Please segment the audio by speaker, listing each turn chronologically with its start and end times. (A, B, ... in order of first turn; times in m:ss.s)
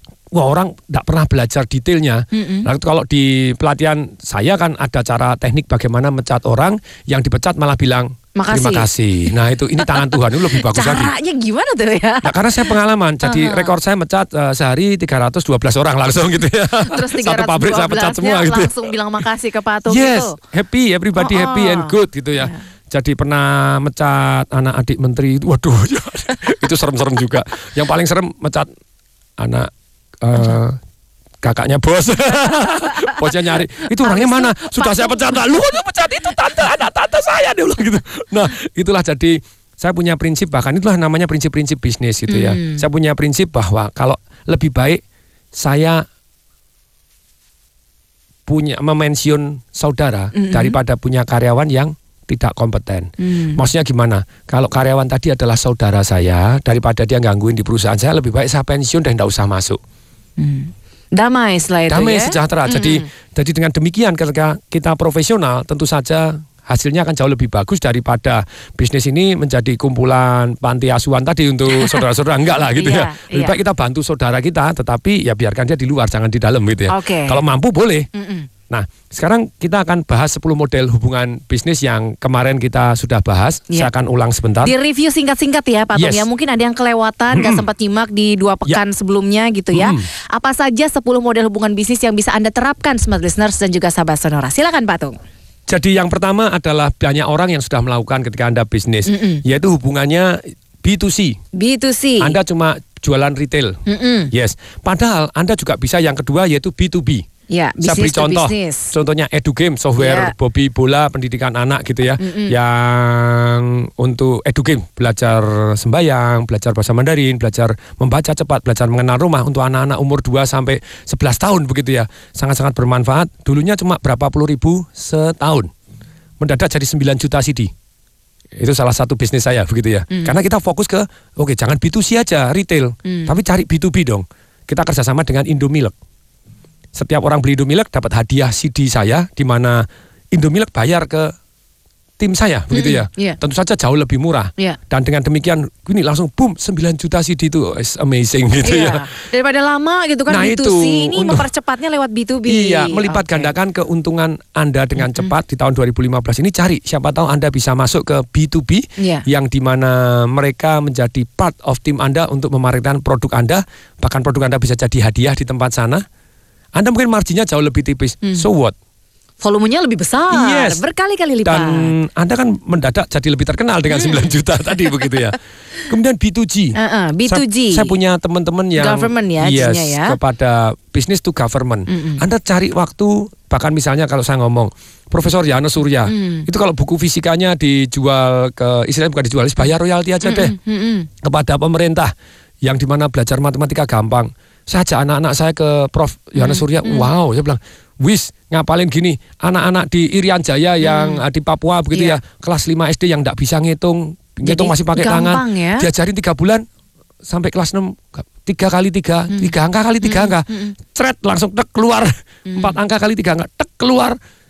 0:00.3-0:11.1 A
0:02.3-0:02.7 B
0:08.4-0:08.9 B
0:09.8-0:13.7 B
0:12.2-0:18.9 A
0:16.9-0:20.4 B
0:19.8-0:28.7 A
0:21.2-0:22.6 B
0:29.4-0:29.7 A
0:30.2-0:30.8 A
0:31.4-0:45.0 A
0:32.9-0:35.4 B
0:42.3-0:42.8 B
0:45.5-0:46.0 A
0:48.5-0:59.8 A
0:50.3-0:50.8 B
0:53.2-0:53.6 B
1:00.4-1:03.0 B
1:01.9-1:18.1 A
1:11.7-1:12.0 B
1:12.7-1:13.6 B
1:16.9-1:17.4 B
1:18.1-1:18.5 B
1:18.7-1:24.7 A
1:24.6-1:35.1 B
1:25.9-1:26.3 A
1:27.3-1:27.6 A
1:29.7-1:30.0 A
1:35.7-1:41.4 A
1:39.1-1:39.4 B
1:41.5-1:42.4 B
1:42.2-1:43.8 A
1:43.9-1:44.3 B
1:44.3-1:47.2 A
1:47.5-1:48.9 B
1:47.8-2:05.7 A
1:50.0-1:50.3 B
1:52.2-1:52.5 B
2:06.4-2:07.7 A
2:08.6-2:15.9 A
2:10.1-2:10.4 B
2:13.0-2:13.3 B
2:16.9-2:21.3 A
2:22.2-2:29.1 A
2:22.7-2:23.4 B
2:28.6-2:33.5 B
2:30.3-2:31.4 A
2:32.4-2:46.0 A
2:35.0-2:35.3 B
2:39.0-2:39.2 B
2:46.7-2:48.7 A
2:49.4-2:51.9 B
2:50.3-2:50.8 A
2:51.4-2:55.4 A
2:53.9-2:54.3 B
2:54.9-2:55.2 B
2:55.9-2:56.7 A
2:56.8-2:57.9 B
2:57.2-3:10.5 A
2:58.8-3:00.2 B
3:01.9-3:02.2 B
3:06.1-3:06.4 B
3:10.2-3:11.1 B
3:11.2-3:12.1 A
3:12.6-3:26.6 A
3:16.4-3:17.1 B
3:20.8-3:21.2 B
3:21.9-3:22.2 B
3:24.4-3:25.8 B
3:27.2-3:34.2 A
3:30.0-3:30.7 B
3:32.5-3:32.7 B